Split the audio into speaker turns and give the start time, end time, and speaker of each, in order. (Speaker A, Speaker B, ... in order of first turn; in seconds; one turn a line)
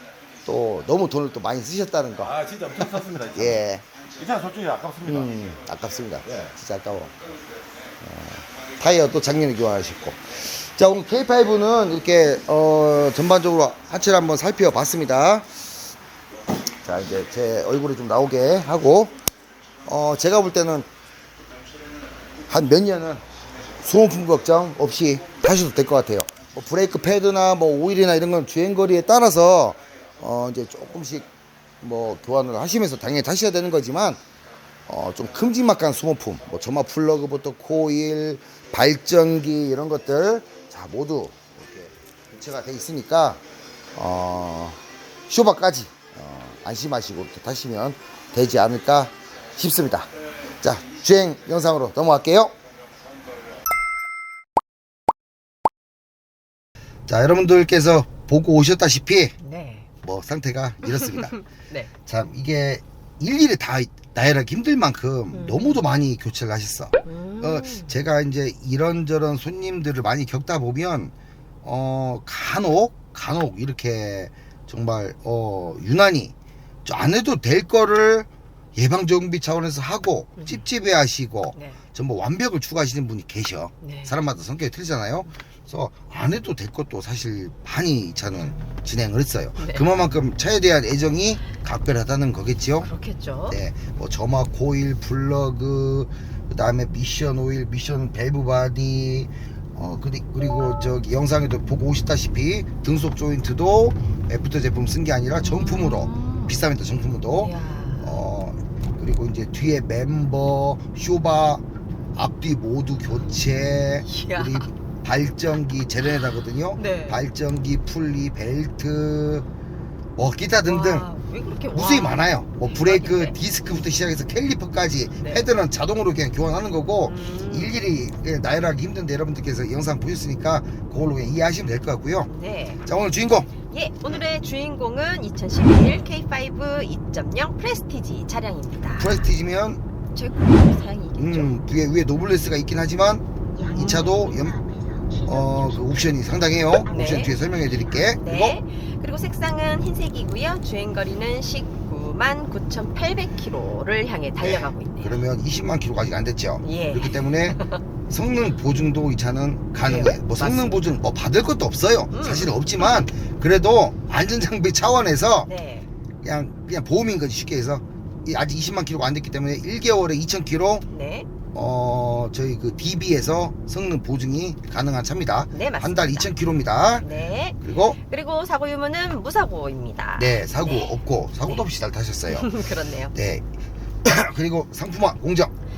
Speaker A: 0.4-3.8
Speaker B: 2.2-3.6
Speaker B: 4.2-5.3
Speaker A: 5.0-7.1
Speaker B: 6.2-6.5
Speaker A: 8.0-15.7
Speaker A: 16.8-19.1
Speaker A: 19.9-20.9
Speaker A: 22.5-23.2
Speaker A: 23.8-31.3
Speaker A: 31.8-34.2
Speaker A: 34.9-43.4
Speaker A: 43.9-50.1
Speaker A: 50.6-52.5
Speaker A: 57.1-59.4
Speaker C: 59.4-59.9
Speaker A: 60.0-61.4
Speaker C: 60.9-61.9
Speaker A: 62.0-71.1
Speaker C: 65.3-65.8
Speaker C: 67.0-68.0
Speaker A: 71.6-76.3
Speaker A: 76.8-92.9
Speaker C: 80.4-80.6
Speaker C: 81.5-81.8
Speaker C: 83.8-84.1
Speaker C: 89.6-89.9
Speaker C: 92.8-93.6
Speaker A: 93.5-119.5
Speaker C: 105.3-106.6
Speaker C: 107.4-108.2
Speaker C: 114.0-114.7
Speaker C: 116.8-117.2
Speaker A: 120.2-121.1
Speaker C: 120.6-123.4
Speaker A: 121.7-132.3
Speaker C: 125.2-125.4
Speaker C: 127.0-127.8
Speaker C: 132.3-132.8
Speaker A: 132.8-133.5
Speaker C: 133.7-139.2
Speaker A: 138.9-139.8
Speaker C: 140.1-141.5
Speaker A: 141.2-144.7
Speaker C: 143.6-144.2
Speaker A: 145.2-148.6
Speaker C: 146.9-147.3
Speaker C: 148.2-155.2
Speaker A: 154.4-165.5
Speaker C: 156.6-157.8
Speaker C: 159.8-160.8
Speaker C: 162.1-162.5
Speaker C: 165.4-165.9
Speaker A: 166.2-170.8
Speaker C: 170.9-171.3
Speaker A: 171.5-177.1
Speaker C: 175.5-176.3
Speaker C: 177.0-180.9
Speaker A: 177.6-178.0
Speaker A: 180.2-182.6
Speaker C: 182.3-183.1
Speaker A: 183.1-183.4
Speaker A: 184.0-185.5